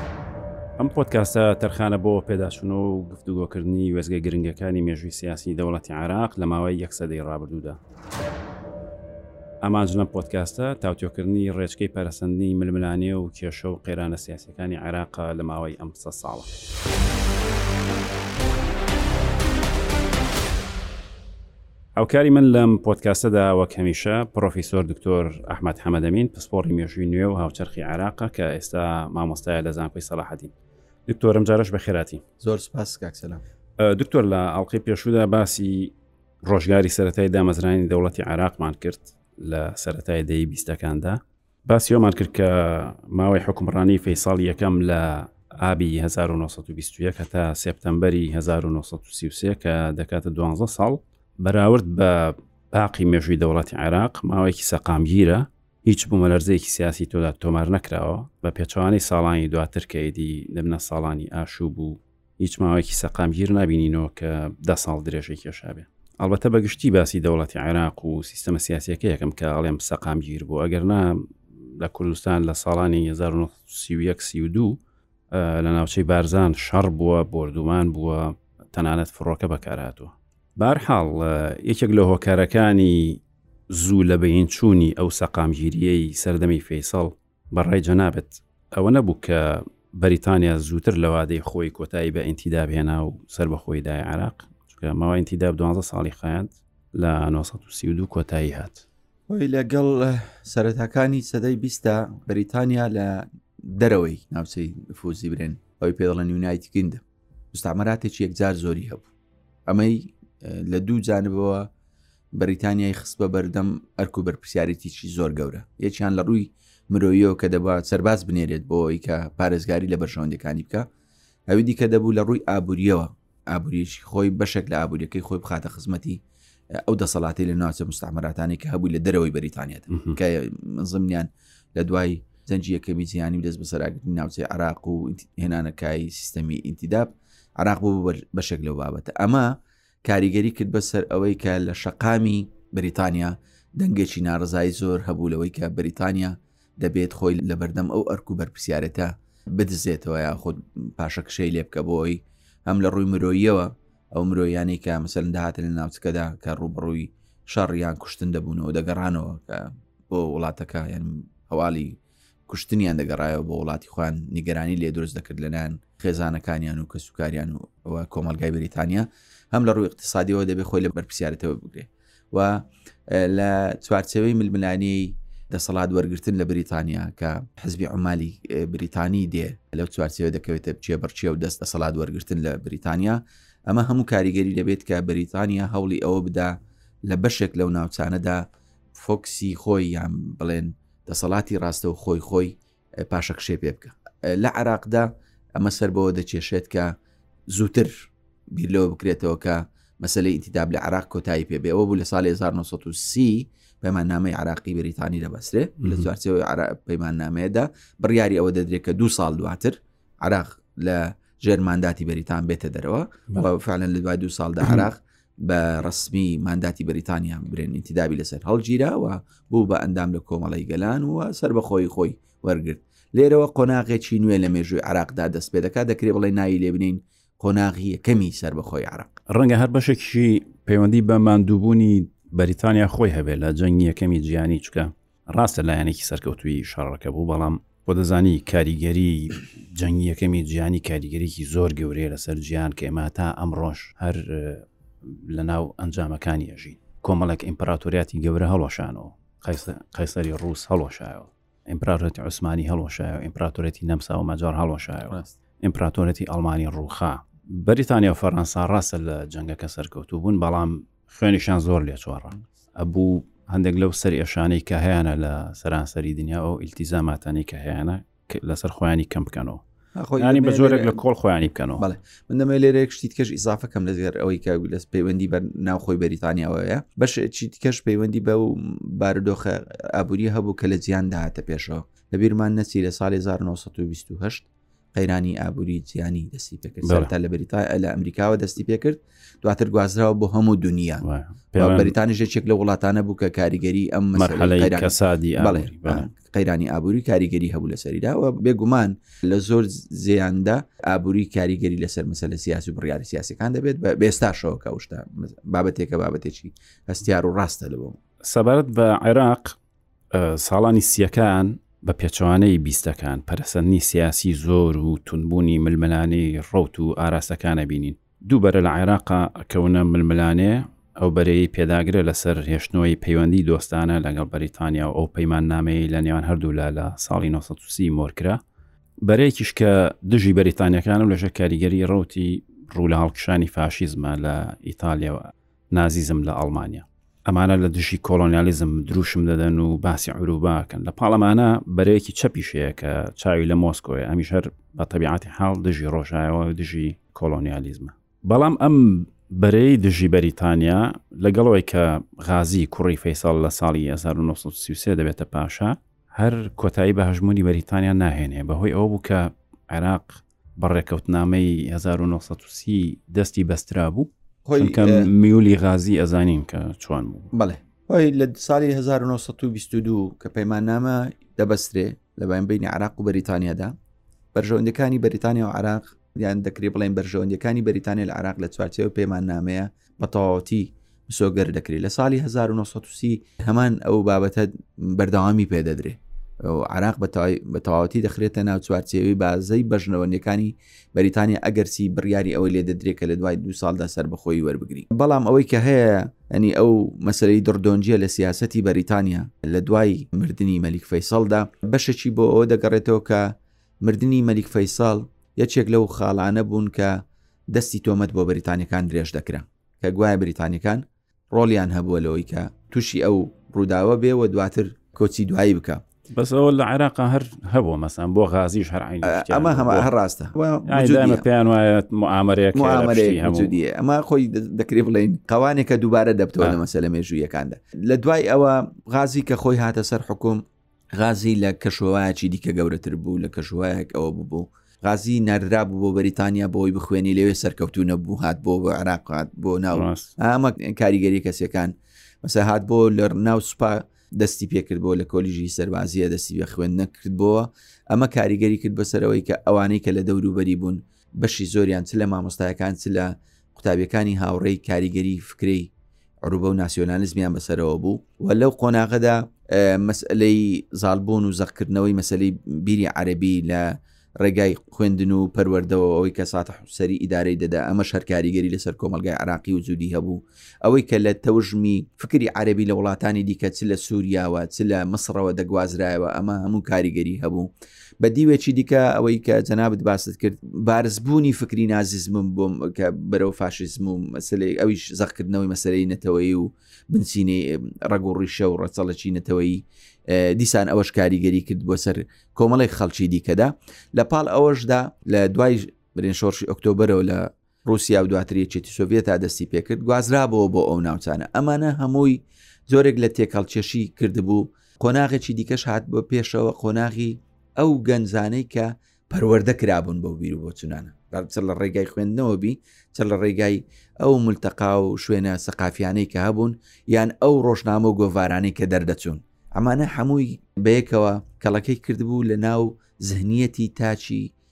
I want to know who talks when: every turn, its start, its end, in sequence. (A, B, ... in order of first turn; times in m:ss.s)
0:00.8-0:07.8 A
0:09.6-0:16.5 A
0:22.0-0:30.5 A
0:31.1-0:32.2 A
0:32.4-0:33.4 B
0:33.8-0:35.9 A
0:36.4-1:14.8 A
1:15.3-1:38.8 A
1:39.3-1:49.1 B
1:49.7-1:51.7 B
1:52.4-2:00.9 B
2:01.5-2:06.2 B
2:06.9-2:19.5 B
2:09.9-2:10.2 A
2:20.0-3:06.6 B
3:07.1-3:16.9 B
3:17.5-3:49.2 B
3:25.8-3:26.1 A
3:34.6-3:34.9 A
3:49.3-4:29.6 A
4:30.0-4:31.0 B
4:30.2-4:31.8 A
4:31.8-4:51.0 B
4:46.8-4:47.1 A
4:51.0-4:52.0 A
4:51.6-5:08.0 B
4:54.2-4:56.1 A
5:08.2-5:09.6 A
5:10.1-5:28.4 A
5:29.0-6:07.3 A
6:04.4-6:05.1 B
6:07.3-6:13.8 B
6:14.3-6:55.8 B
6:56.1-6:59.9 A
6:59.0-7:01.2 B
7:00.6-7:03.5 A
7:02.5-7:10.4 B
7:11.0-7:35.7 B
7:19.7-7:20.1 A
7:36.3-7:57.5 B
7:58.0-8:44.3 B